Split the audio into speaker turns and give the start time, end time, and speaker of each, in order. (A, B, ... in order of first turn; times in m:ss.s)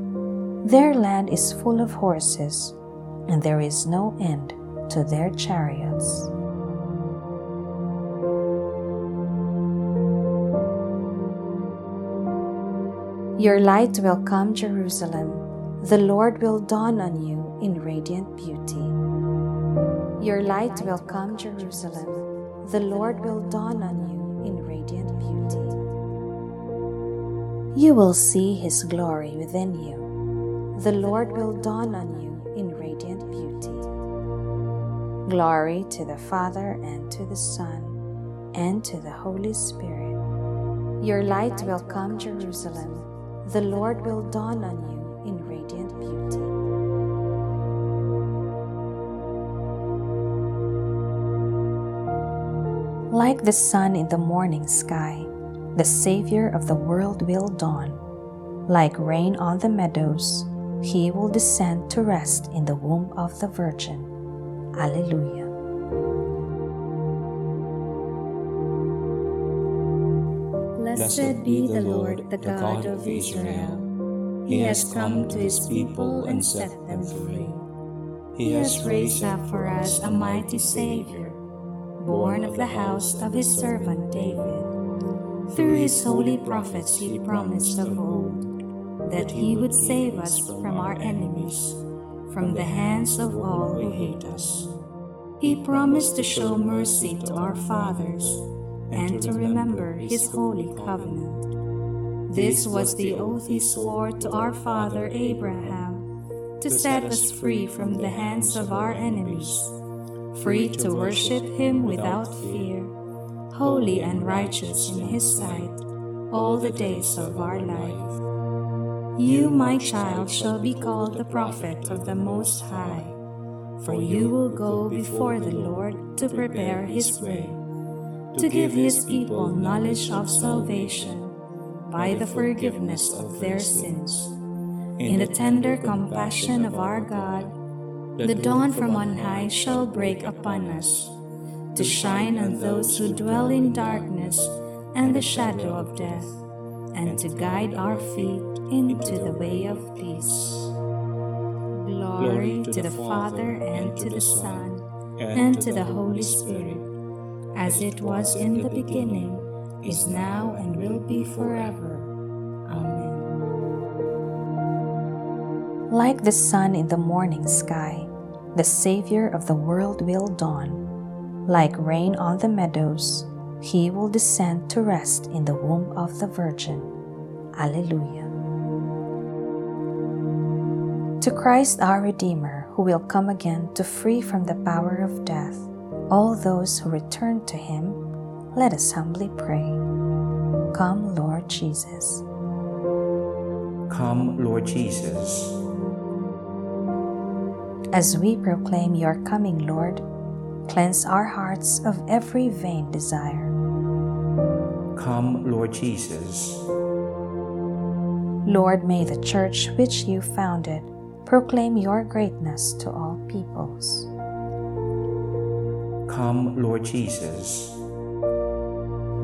0:00.6-0:06.3 A
0:13.4-0:19.0 A
0:20.2-0:25.8 A
0:27.7-0:30.1 A
0:30.8-0:33.9 A
0:35.3-0:38.0 A
0:38.5-0:40.2 A
0:41.0-0:46.6 A
0:53.1-0:58.0 A
0:58.7-1:04.1 A
1:04.8-1:05.5 A
1:10.8-1:13.9 B
1:10.9-1:13.9 C
1:14.5-1:17.6 B
1:14.5-1:17.6 C
1:18.3-1:21.4 C
1:18.4-1:21.3 B
1:22.0-1:24.7 B
1:22.0-1:24.6 C
1:25.5-1:28.4 C
1:25.5-1:28.5 B
1:29.0-1:31.6 B
1:29.1-1:31.8 C
1:32.3-1:34.4 B
1:32.4-1:34.8 C
1:35.4-1:41.5 B
1:35.4-1:38.3 C
1:38.9-1:41.4 C
1:42.3-1:46.0 B
1:42.3-1:45.9 C
1:46.6-1:49.7 B
1:46.6-1:49.7 C
1:50.3-1:52.8 C
1:50.4-1:52.9 B
1:53.5-1:55.8 B
1:53.6-1:55.7 C
1:56.3-1:58.0 B
1:56.3-1:58.2 C
1:59.2-2:03.1 B
1:59.2-2:03.2 C
2:03.8-2:07.6 C
2:03.8-2:07.6 B
2:08.3-2:11.2 C
2:08.4-2:11.4 B
2:11.9-2:14.2 B
2:11.9-2:14.3 C
2:15.0-2:17.6 C
2:15.0-2:17.5 B
2:18.2-2:21.1 C
2:18.2-2:21.1 B
2:21.7-2:26.3 B
2:21.8-2:26.3 C
2:26.9-2:30.3 B
2:27.0-2:30.7 C
2:31.8-2:36.8 B
2:32.2-2:36.9 C
2:37.5-2:42.1 B
2:37.6-2:41.8 C
2:42.7-2:43.3 B
2:45.9-2:50.8 A
2:51.5-2:56.9 A
2:57.6-2:58.3 A
3:01.2-3:08.0 A
3:08.5-3:09.8 A
3:10.7-3:12.2 A
3:13.9-3:15.6 C
3:17.9-3:20.0 A
3:20.7-3:23.5 A
3:24.9-3:26.7 C
3:28.5-3:34.1 A
3:36.1-3:37.8 C